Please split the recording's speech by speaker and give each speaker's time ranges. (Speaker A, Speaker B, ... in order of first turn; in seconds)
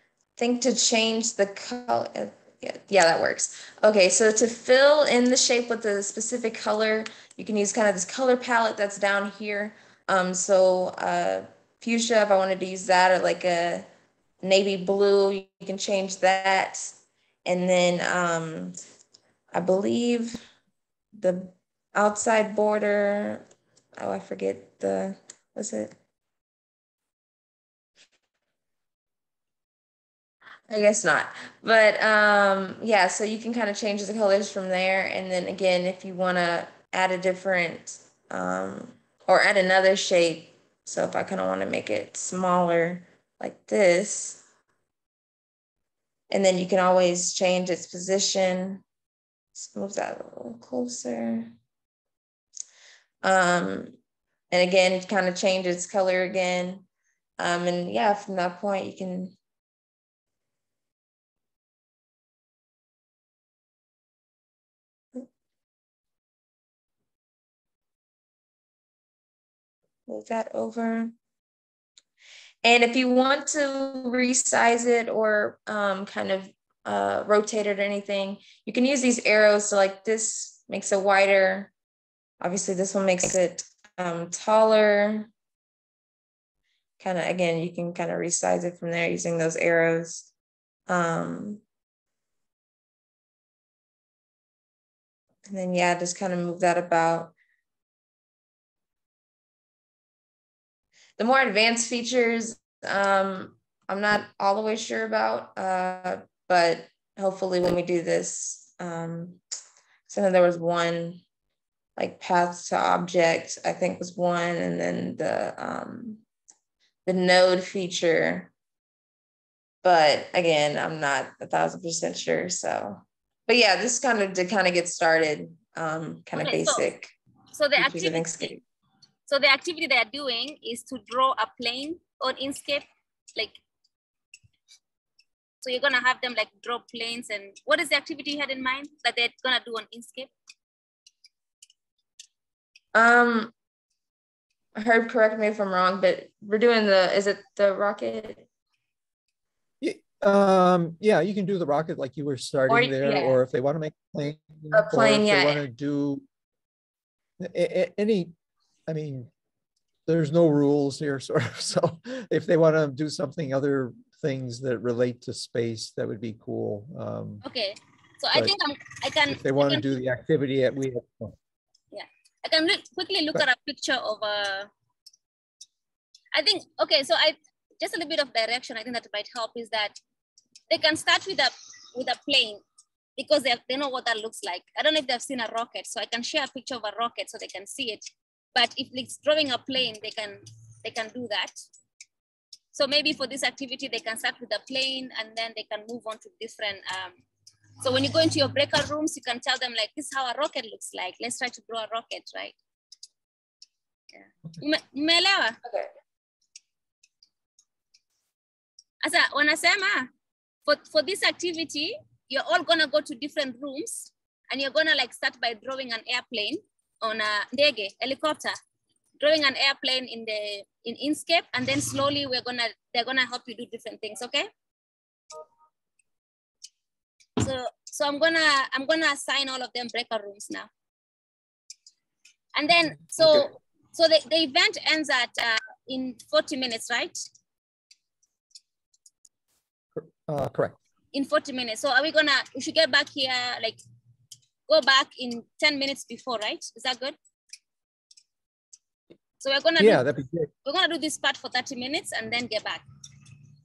Speaker A: 0.4-13.9, 14.4-18.8, 19.5-20.4, 21.1-23.4, 24.0-25.9, 30.7-44.4, 46.3-48.8, 49.5-51.5, 53.2-54.0, 54.5-56.9, 57.4-59.4, 70.1-71.1, 72.6-81.7, 82.4-85.3, 87.0-90.3, 90.9-91.6, 95.5-97.3, 101.2-109.4, 110.1-111.2, 112.0-116.2, 117.0-118.5, 119.8-127.1, 127.8-128.6, 142.9-143.5, 144.8-148.5, 152.7-153.4, 154.7-155.6, 205.6-205.9
Speaker B: 126.4-126.9, 127.5-128.5, 129.3-133.6, 135.6-140.3, 167.4-169.9, 171.9-174.7, 176.3-180.0, 180.7-182.6, 183.2-191.6, 192.7-197.2, 197.8-202.6, 204.1-205.6, 209.0-210.1, 210.7-218.6, 219.2-224.5, 227.4-230.7, 232.6-237.2, 241.1-243.8, 244.7-247.2, 249.4-250.0, 250.7-252.8
Speaker C: 149.8-156.2, 157.4-158.3, 158.9-159.3, 160.1-167.4, 169.3-171.4, 240.0-240.8, 249.8-250.5